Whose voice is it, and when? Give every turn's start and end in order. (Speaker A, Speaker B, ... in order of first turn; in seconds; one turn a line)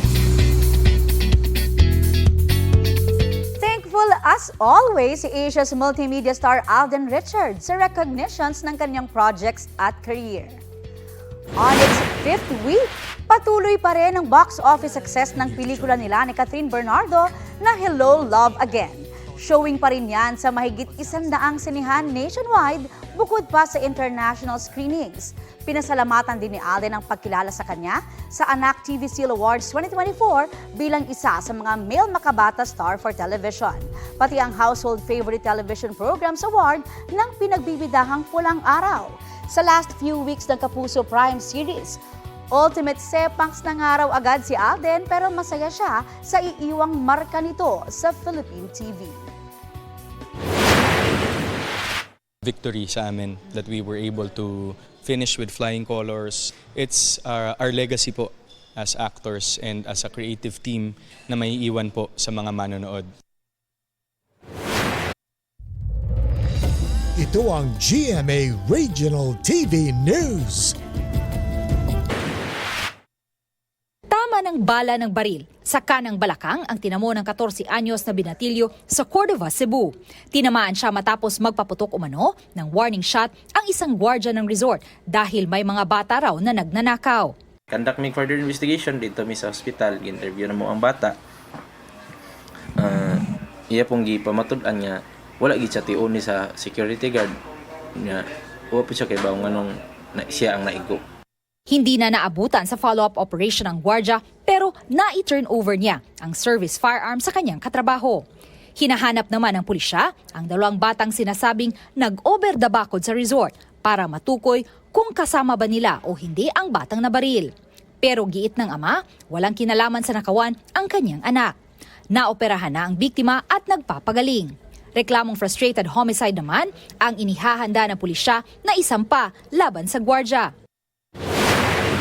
Speaker A: 3.6-10.6
Speaker A: 11.6-42.0
Speaker A: 42.5-49.3
Speaker B: 52.4-63.1
Speaker C: 67.2-70.8
Speaker D: 74.1-87.3
Speaker E: 87.7-91.2
Speaker E: 92.8-97.3
Speaker E: 98.0-101.0
Speaker D: 101.7-108.2
Speaker D: 108.8-117.5
Speaker D: 118.0-121.5
Speaker D: 122.1-130.5